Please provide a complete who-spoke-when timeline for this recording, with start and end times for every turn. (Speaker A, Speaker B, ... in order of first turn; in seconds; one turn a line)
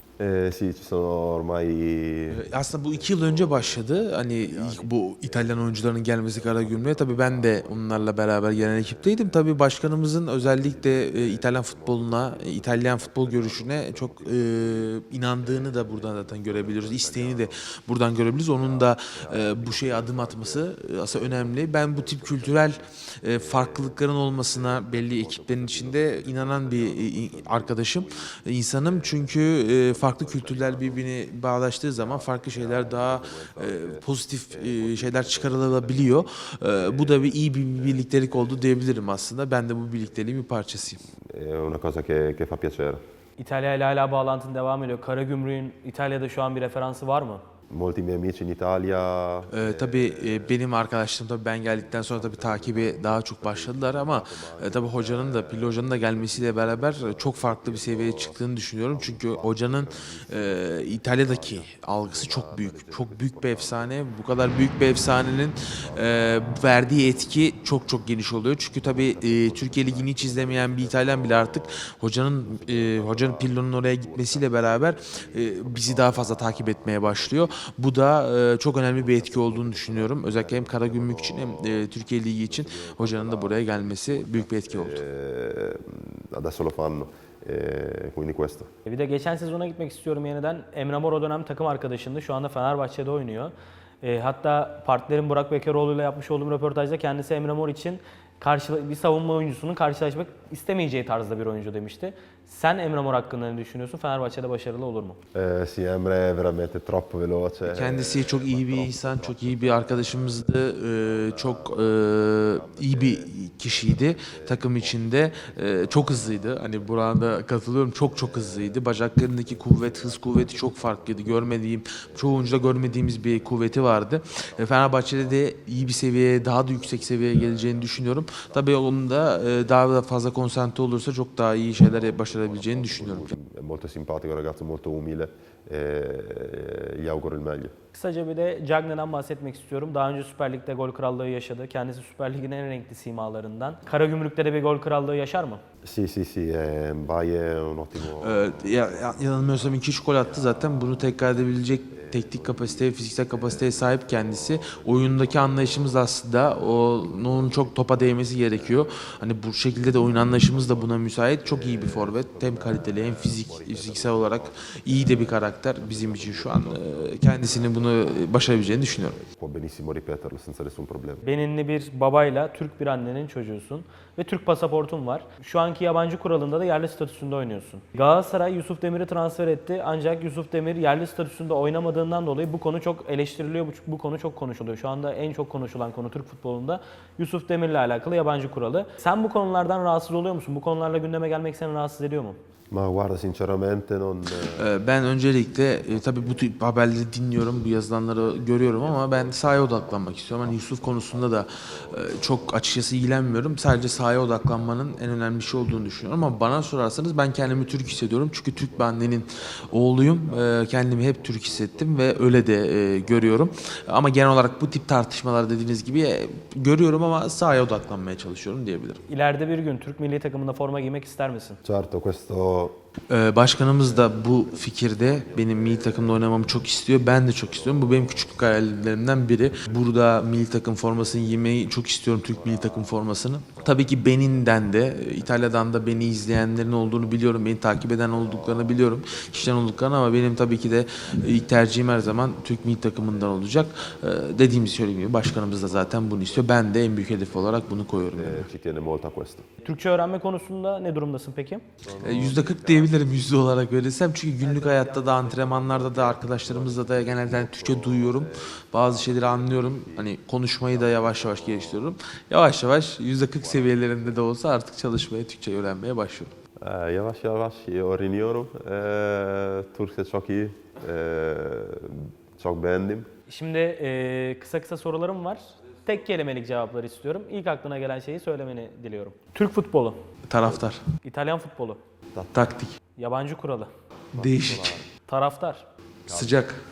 Speaker A: 0.2-9.4
Speaker B: 2.3-41.0
Speaker A: 10.3-17.7
Speaker A: 18.5-31.1
Speaker A: 32.0-38.0
Speaker A: 41.2-43.0
Speaker C: 43.4-47.4
Speaker A: 47.7-50.6
Speaker B: 49.5-85.0
Speaker A: 51.8-63.9
Speaker A: 64.9-67.3
Speaker A: 68.8-71.9
Speaker A: 72.4-77.6
Speaker A: 78.7-81.9
Speaker A: 82.5-88.7
Speaker C: 88.8-105.2
Speaker A: 105.3-116.8
Speaker B: 107.7-133.3
Speaker A: 118.1-128.8
Speaker A: 131.8-137.7
Speaker C: 137.9-145.6
Speaker A: 145.8-151.0
Speaker B: 148.1-169.2
Speaker A: 151.9-155.9
Speaker A: 157.2-159.1
Speaker A: 159.7-160.9
Speaker A: 161.4-167.9
Speaker A: 168.6-171.2
Speaker C: 171.2-192.4
Speaker A: 192.7-194.7
Speaker B: 194.3-219.0
Speaker A: 198.5-202.9
Speaker A: 204.0-205.0
Speaker A: 207.4-208.0
Speaker A: 208.8-209.1
Speaker A: 210.2-212.1
Speaker A: 213.0-213.8
Speaker C: 219.1-221.6
Speaker A: 221.6-222.8
Speaker B: 223.1-248.5
Speaker A: 224.5-226.2
Speaker A: 227.5-228.7
Speaker A: 232.4-233.0
Speaker A: 238.3-240.0
Speaker A: 245.8-246.2
Speaker A: 248.1-249.5
Speaker C: 249.6-251.6
Speaker A: 251.8-253.2
Speaker B: 252.0-266.3
Speaker C: 254.4-255.7
Speaker A: 255.5-260.1
Speaker A: 260.7-261.9
Speaker A: 263.4-264.0
Speaker A: 266.6-273.1
Speaker C: 273.3-280.0
Speaker B: 280.3-280.8
Speaker C: 281.0-281.8
Speaker B: 282.3-282.7
Speaker C: 282.9-283.7
Speaker B: 284.1-284.8
Speaker A: 284.1-284.9
Speaker C: 285.1-285.6
Speaker B: 286.1-286.6
Speaker A: 286.1-286.4